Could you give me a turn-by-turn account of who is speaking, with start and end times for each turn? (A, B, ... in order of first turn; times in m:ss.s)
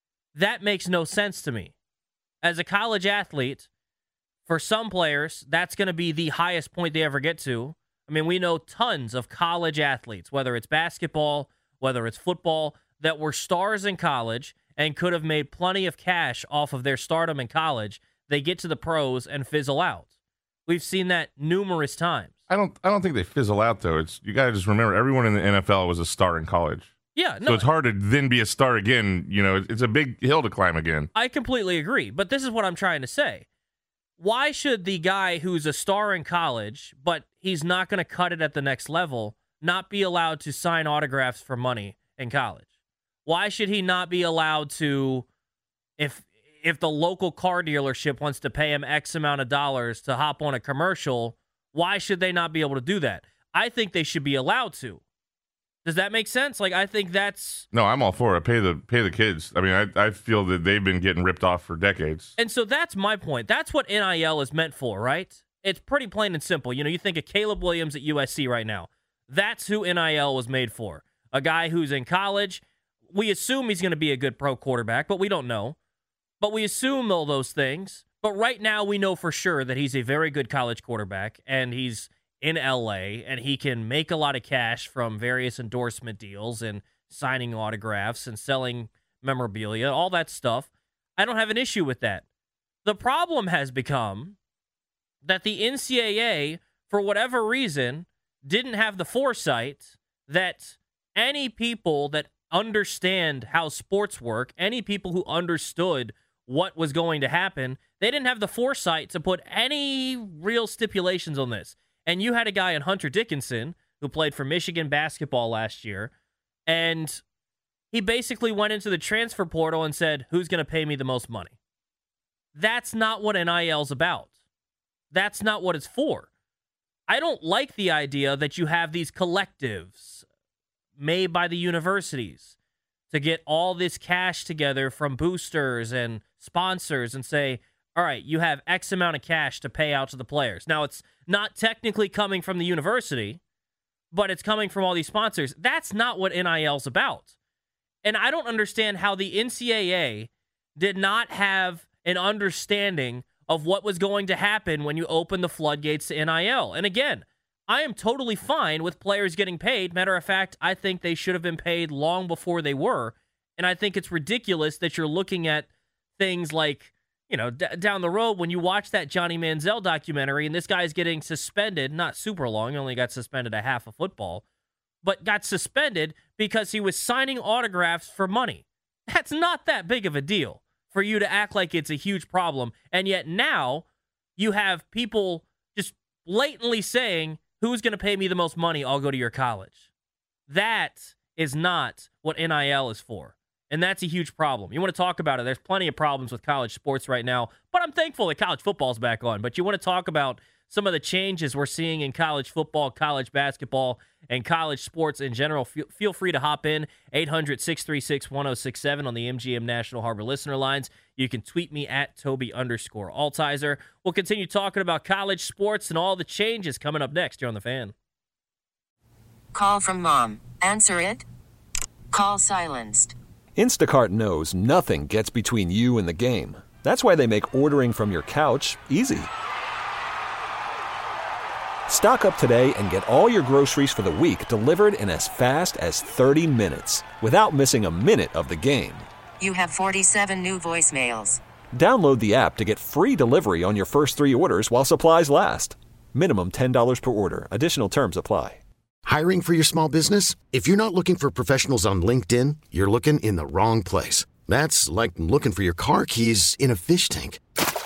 0:00.4-0:01.7 A
0:02.4-0:03.7 A
0:04.5-0:20.1 A
0:20.7-0:22.3 A
0:22.5-0:26.9 B
0:27.2-0:27.7 A
0:27.4-0:31.1 B
0:31.2-0:33.5 A
0:34.2-0:42.7 A
0:43.3-0:45.3 A
0:46.0-0:55.0 A
0:55.8-0:57.7 A
0:57.7-1:02.3 B
1:02.4-1:15.8 A
1:16.4-1:32.2 A
1:32.8-1:34.4 A
1:35.2-1:56.1 A
1:56.7-1:57.2 A
1:57.9-2:01.6 A
2:02.6-2:04.3 A
2:05.1-2:06.3 A
2:07.1-2:10.2 A
2:11.0-2:12.6 A
2:13.1-2:23.4 A
2:24.1-2:27.3 A
2:28.0-2:54.4 A
2:55.0-3:03.8 A
3:04.4-3:09.8 A
3:10.5-3:37.9 A
3:39.5-3:41.2 C
3:42.1-3:43.2 C
3:43.6-3:49.3 D
3:51.9-3:59.1 D
3:59.4-4:01.4 C
4:01.7-4:08.6 D
4:09.1-4:17.4 E